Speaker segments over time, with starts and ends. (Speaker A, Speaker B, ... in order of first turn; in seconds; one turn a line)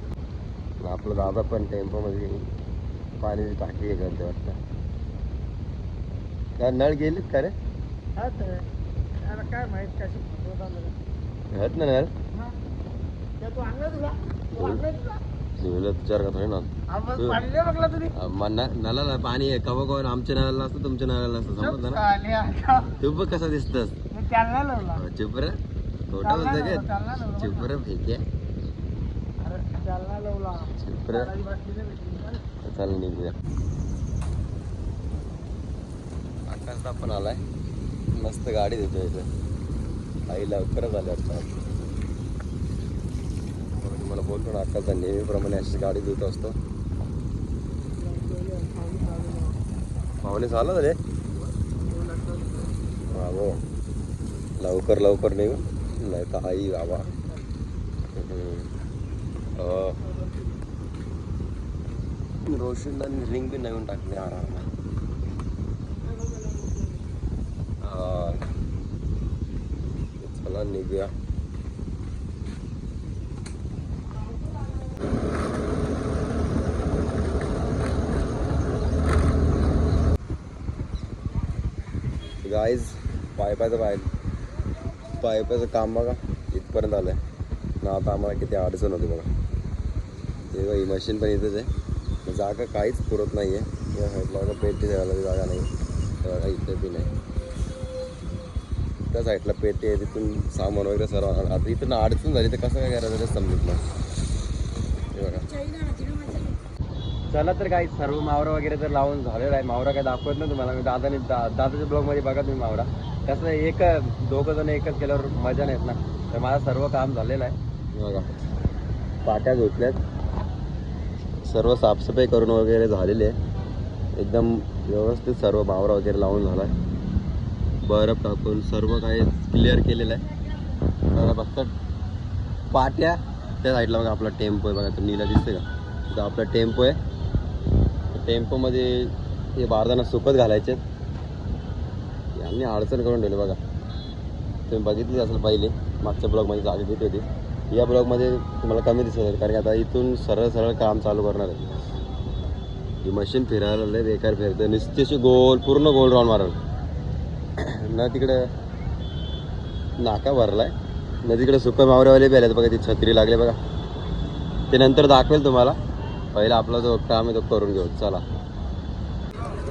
Speaker A: 0.8-2.5
Speaker A: 3.2-4.6
Speaker A: 6.6-7.5
Speaker B: 8.2-8.6
Speaker B: 9.3-10.9
Speaker A: 11.5-12.1
Speaker B: 13.4-14.9
Speaker A: 14.6-14.8
Speaker A: 15.6-17.4
Speaker B: 16.9-18.1
Speaker A: 18.1-22.0
Speaker B: 21.6-22.9
Speaker A: 23.0-23.9
Speaker B: 24.1-25.0
Speaker A: 24.9-25.6
Speaker A: 26.1-28.2
Speaker B: 26.2-27.7
Speaker B: 29.4-32.4
Speaker A: 30.8-31.3
Speaker A: 32.6-33.4
Speaker A: 36.5-37.4
Speaker A: 38.1-39.3
Speaker A: 40.3-41.5
Speaker A: 43.7-46.6
Speaker B: 48.4-49.4
Speaker A: 50.2-51.0
Speaker A: 53.1-53.6
Speaker A: 54.6-57.1
Speaker A: 58.2-58.7
Speaker A: 59.6-60.0
Speaker A: 62.5-64.7
Speaker A: 67.8-68.4
Speaker A: 70.2-71.1
Speaker A: 82.4-84.1
Speaker A: 85.2-87.2
Speaker A: 87.8-89.3
Speaker A: 90.5-91.7
Speaker A: 92.2-95.7
Speaker A: 96.2-97.1
Speaker A: 99.1-103.8
Speaker A: 105.1-105.5
Speaker A: 107.3-118.3
Speaker A: 119.2-120.0
Speaker A: 121.5-123.4
Speaker A: 124.2-126.7
Speaker A: 127.8-130.2
Speaker A: 131.1-131.7
Speaker A: 132.7-137.0
Speaker A: 138.1-140.8
Speaker A: 142.4-143.6
Speaker A: 144.7-151.7
Speaker A: 153.0-156.6
Speaker A: 157.6-158.5
Speaker A: 160.0-163.6
Speaker A: 164.7-165.8
Speaker A: 166.3-168.2